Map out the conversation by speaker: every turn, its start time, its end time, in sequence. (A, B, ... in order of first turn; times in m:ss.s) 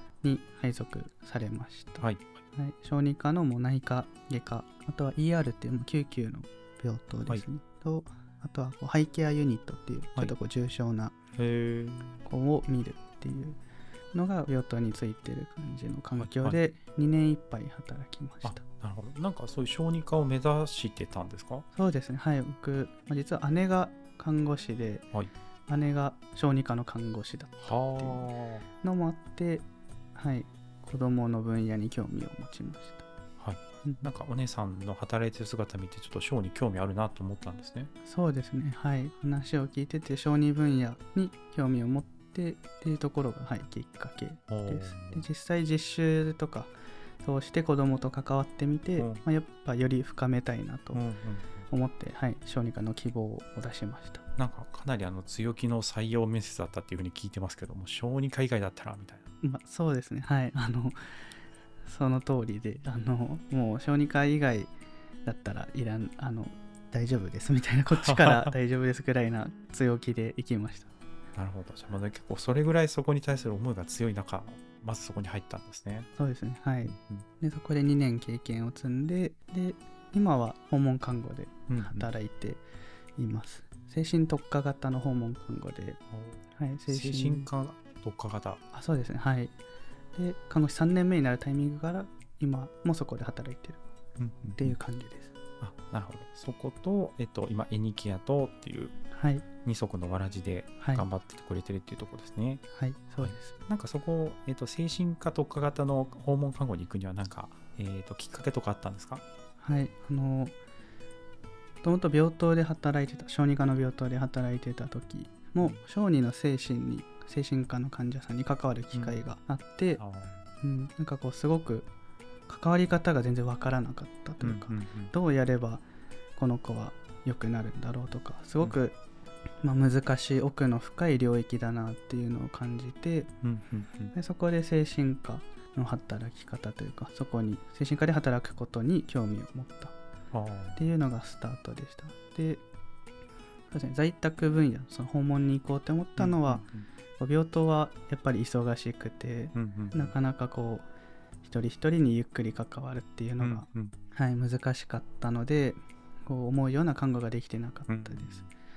0:00.2-0:11.1 A
0:02.0-0:02.3 B
0:11.4-0:12.2 B
0:12.2-0:13.6 A
0:14.1-0:18.6 A
0:16.2-0:16.6 B
0:18.4-0:21.6 B
0:21.7-0:25.1 A
0:25.7-0:28.3 A
0:27.6-0:28.6 B
0:28.8-0:33.0 A
0:33.4-0:37.9 B
0:33.8-0:34.1 A
0:38.0-0:51.0 A
0:44.5-0:45.3 B
0:49.0-0:49.2 B
0:50.9-0:51.6 B
0:51.7-0:54.2 A
0:54.4-0:59.2 B
0:59.4-1:01.3 A
1:01.8-1:04.7 A
1:05.2-1:10.9 A
1:07.9-1:08.5 B
1:11.3-1:16.1 B
1:16.2-1:22.6 A
1:16.9-1:17.2 B
1:21.7-1:22.1 B
1:23.2-1:26.0 A
1:26.1-1:28.6 B
1:26.5-1:27.5 A
1:28.7-1:29.5 A
1:30.1-1:33.8 A
1:34.2-1:34.7 B
1:34.5-1:35.3 A
1:35.6-1:38.9 B
1:39.1-1:39.4 A
1:39.6-1:42.6 B
1:40.8-1:41.0 A
1:42.7-1:43.5 A
1:43.2-1:49.2 B
1:49.6-1:50.6 A
1:51.8-2:00.0 A
1:58.9-1:59.2 B
2:00.0-2:00.4 B
2:00.6-2:01.9 A
2:02.5-2:05.8 A
2:04.4-2:05.1 B
2:06.4-2:09.0 A
2:09.6-2:13.3 A
2:13.4-2:14.1 B
2:14.1-2:19.9 A
2:20.3-2:20.8 B
2:20.8-2:22.6 A
2:23.7-2:26.6 A
2:26.2-2:26.9 B
2:27.2-2:30.8 A
2:29.5-2:30.1 B
2:31.4-2:38.4 A
2:33.4-2:33.9 B
2:37.9-2:38.5 B